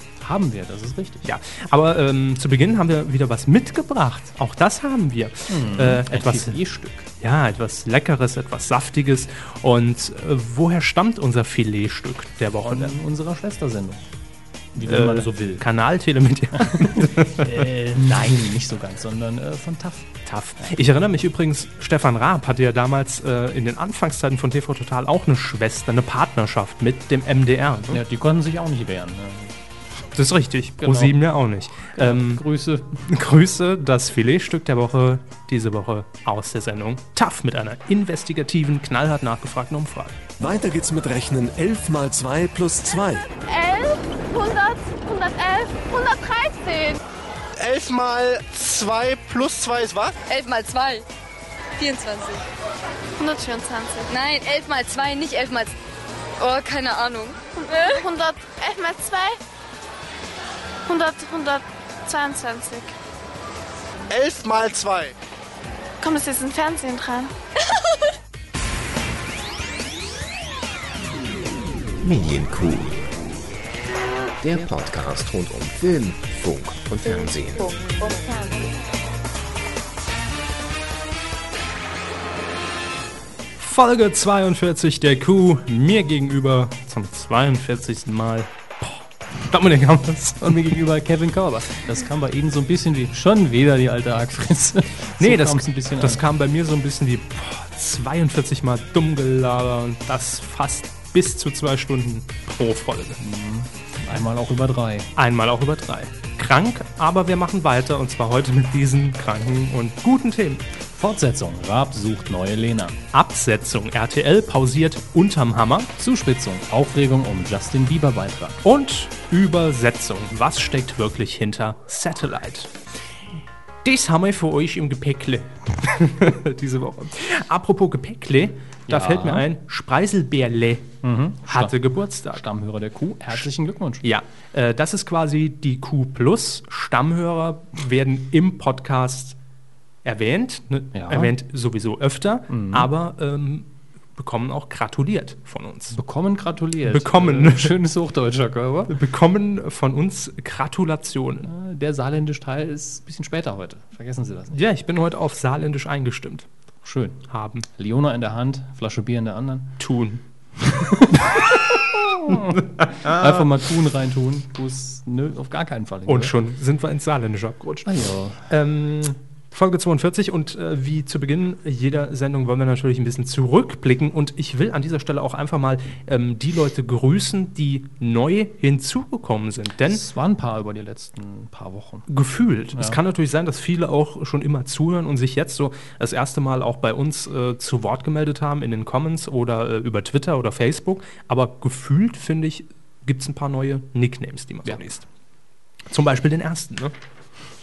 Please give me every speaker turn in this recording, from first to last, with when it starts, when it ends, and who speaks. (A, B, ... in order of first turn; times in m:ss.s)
0:00.2-0:01.3 A
0:01.2-0:06.6 B
0:05.5-0:07.1 A
0:07.2-0:12.9 B
0:12.6-0:14.0 A
0:14.7-0:15.6 A
0:14.8-0:17.7 B
0:16.6-0:20.8 A
0:20.3-0:28.0 B
0:27.9-0:29.6 A
0:30.1-0:32.4 B
0:30.8-0:31.3 A
0:31.9-0:33.0 A
0:33.0-0:40.2 B
0:40.4-0:43.3 C
0:43.4-0:47.0 D
0:47.6-0:50.2 E
0:50.3-0:51.0 F
0:51.8-0:52.4 F
0:53.2-0:54.1 D
0:54.1-0:55.7 F
0:56.4-0:58.0 F
0:57.6-0:59.4 D
1:00.9-1:02.9 D
1:04.1-1:05.2 E
1:06.0-1:07.3 D
1:12.0-1:13.0 G
1:14.4-1:17.8 G
1:23.6-1:30.7 B
1:30.4-1:36.2 A
1:35.2-1:43.2 B
1:43.2-1:45.1 A
1:45.2-1:50.6 B
1:50.9-1:53.0 A
1:53.1-1:55.9 B
1:56.0-1:58.6 A
1:58.6-2:02.7 B
2:03.8-2:10.9 B
2:08.9-2:09.5 A
2:11.0-2:11.8 A
2:11.5-2:12.4 B
2:12.3-2:14.0 A
2:14.0-2:19.4 B
2:20.0-2:26.0 B
2:20.9-2:21.3 A
2:22.5-2:22.9 A
2:25.9-2:28.9 A
2:26.9-2:27.7 B
2:28.9-2:31.5 B
2:31.4-2:34.6 A
2:34.5-2:36.5 B
2:36.8-2:39.8 A
2:37.3-2:37.7 B
2:39.8-2:40.2 B
2:40.6-2:46.4 A
2:42.6-2:43.4 B
2:46.1-3:00.0 B
2:47.8-2:48.5 A
2:59.9-3:02.1 A
3:02.1-3:15.1 B
3:02.7-3:03.0 A
3:15.9-3:16.9 B